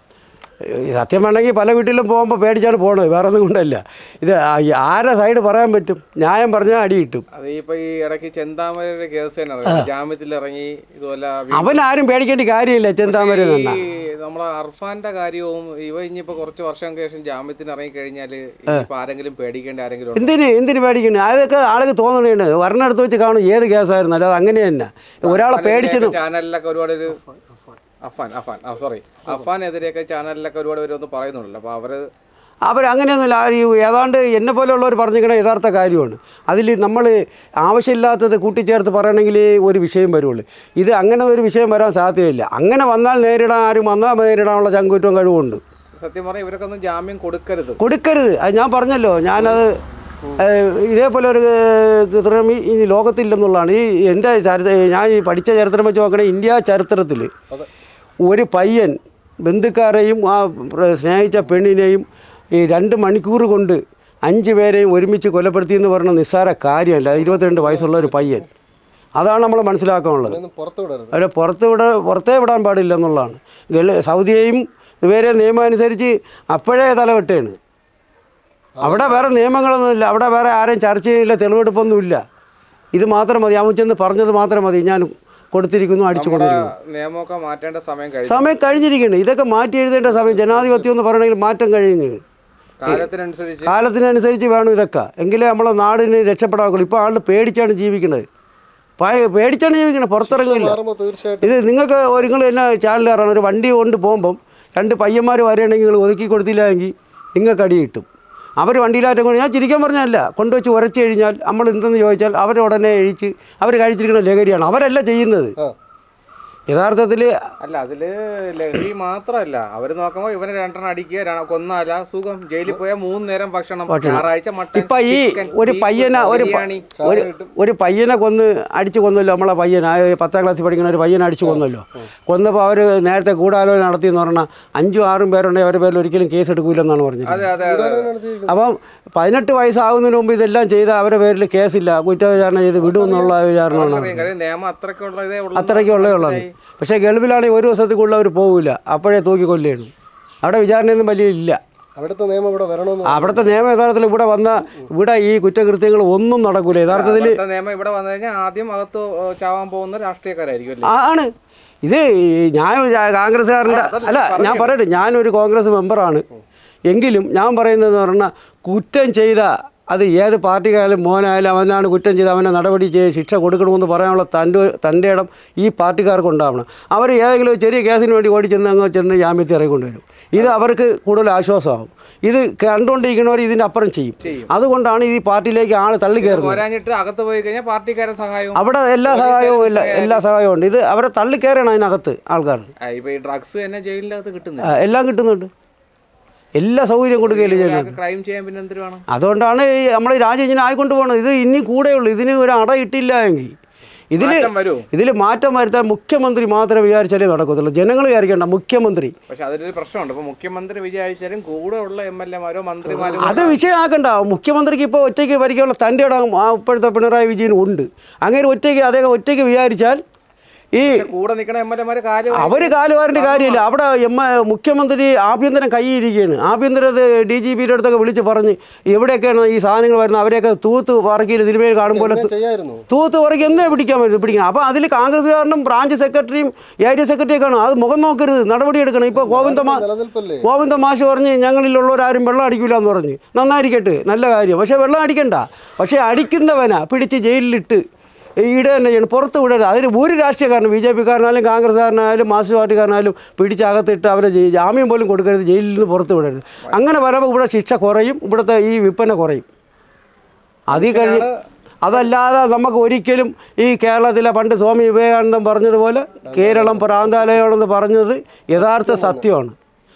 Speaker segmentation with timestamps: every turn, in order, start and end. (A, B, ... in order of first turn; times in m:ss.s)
0:00.6-0:07.2 A
0:07.3-0:11.8 B
0:11.5-0:13.8 A
0:13.0-0:20.4 B
0:20.1-0:26.2 A
0:25.2-0:27.2 B
0:28.0-0:32.1 B
0:32.6-0:45.6 A
0:46.0-0:47.8 B
0:47.8-0:49.8 A
0:50.4-0:57.3 A
0:58.3-1:08.4 A
1:07.1-1:08.5 C
1:09.2-1:10.4 A
1:10.2-1:11.1 C
1:11.1-1:17.6 A
1:18.8-1:19.3 C
1:18.8-1:22.2 A
1:22.9-1:26.7 A
1:26.1-1:28.5 B
1:28.2-1:32.2 A
1:30.2-1:30.7 C
1:32.8-1:33.7 B
1:33.6-1:38.2 A
1:39.0-1:40.8 A
1:40.2-1:41.6 C
1:41.4-1:48.0 A
1:48.6-1:55.6 A
1:56.7-1:57.3 A
1:57.6-2:06.9 B
2:03.9-2:17.5 A
2:07.0-2:07.5 C
2:11.4-2:12.0 C
2:17.2-2:18.1 B
2:17.5-2:18.6 C
2:18.5-2:24.3 A
2:22.9-2:23.3 C
2:23.7-2:26.5 B
2:25.5-2:29.9 A
2:30.4-2:31.6 A
2:32.0-2:33.6 C
2:33.0-2:37.4 A
2:36.8-2:40.9 B
2:40.8-2:41.3 A
2:41.8-2:46.2 A
2:43.6-2:44.8 B
2:46.9-3:06.6 A
3:04.2-3:04.5 B
3:06.2-3:10.2 B
3:08.5-3:12.7 A
3:12.8-3:14.8 B
3:14.6-3:15.5 A
3:16.6-3:18.0 A
3:17.2-3:19.0 B
3:19.1-3:23.5 A
3:24.1-3:29.1 A
3:24.2-3:24.9 B
3:29.3-3:33.6 B
3:33.2-3:40.0 A
3:40.7-3:41.1 A
3:40.8-3:43.7 B
3:42.3-3:52.3 A
3:51.8-3:52.8 C
3:52.9-3:59.8 A
3:59.1-4:00.4 C
4:00.4-4:07.8 A
4:08.4-4:19.4 A
4:20.7-4:21.3 A
4:20.7-4:21.4 B
4:21.8-4:29.5 A
4:26.3-4:27.3 C
4:28.6-4:29.3 C